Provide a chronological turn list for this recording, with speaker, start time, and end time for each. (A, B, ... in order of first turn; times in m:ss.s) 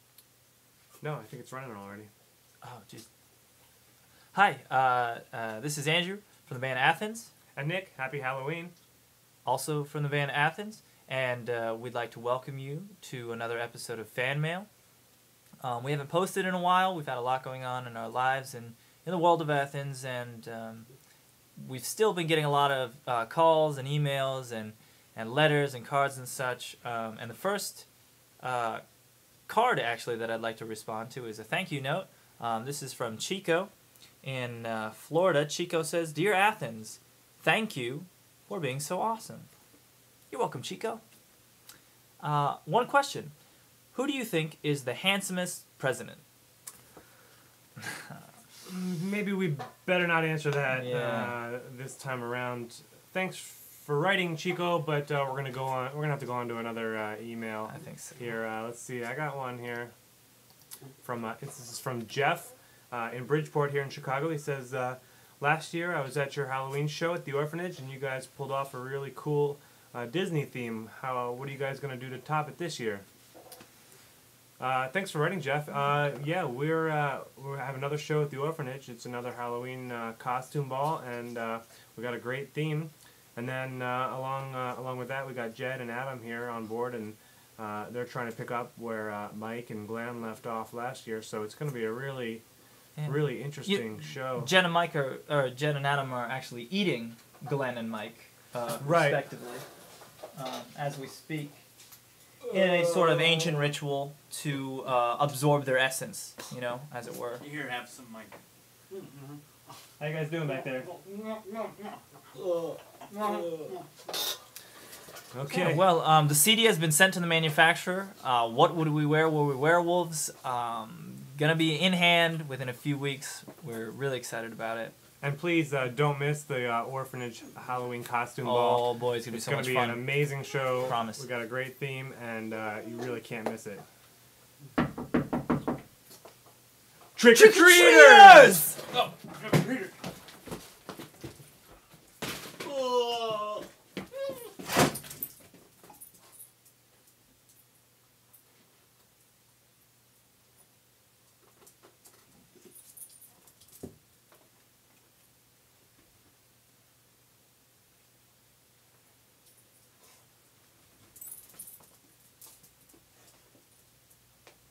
0:01.0-0:02.1 A
0:02.6-0:03.1 B
0:04.3-0:07.3 B
0:07.6-0:08.7 A
0:09.4-0:14.7 B
0:15.6-0:20.9 B
0:21.6-0:27.8 B
0:28.4-0:28.8 B
0:29.5-0:33.7 B
0:34.2-0:39.5 B
0:40.3-0:41.0 B
0:42.2-0:43.3 B
0:43.9-0:46.2 B
0:48.6-0:59.9 A
0:50.7-0:51.4 B
0:57.7-0:58.2 B
1:01.0-1:13.0 A
1:14.6-1:32.4 A
1:33.0-1:39.6 B
1:33.0-1:34.5 A
1:38.8-1:39.2 A
1:40.3-1:41.6 B
1:42.5-1:47.4 B
1:47.4-1:48.4 C
1:48.9-1:49.4 C
1:50.0-1:50.9 A
1:52.4-1:53.8 C
1:55.3-1:55.9 A
1:55.5-2:04.9 B
2:05.2-2:13.8 A
2:08.4-2:11.3 B
2:17.2-2:18.6 A
2:17.3-2:18.8 B
2:18.9-2:19.9 C
2:22.6-2:23.6 C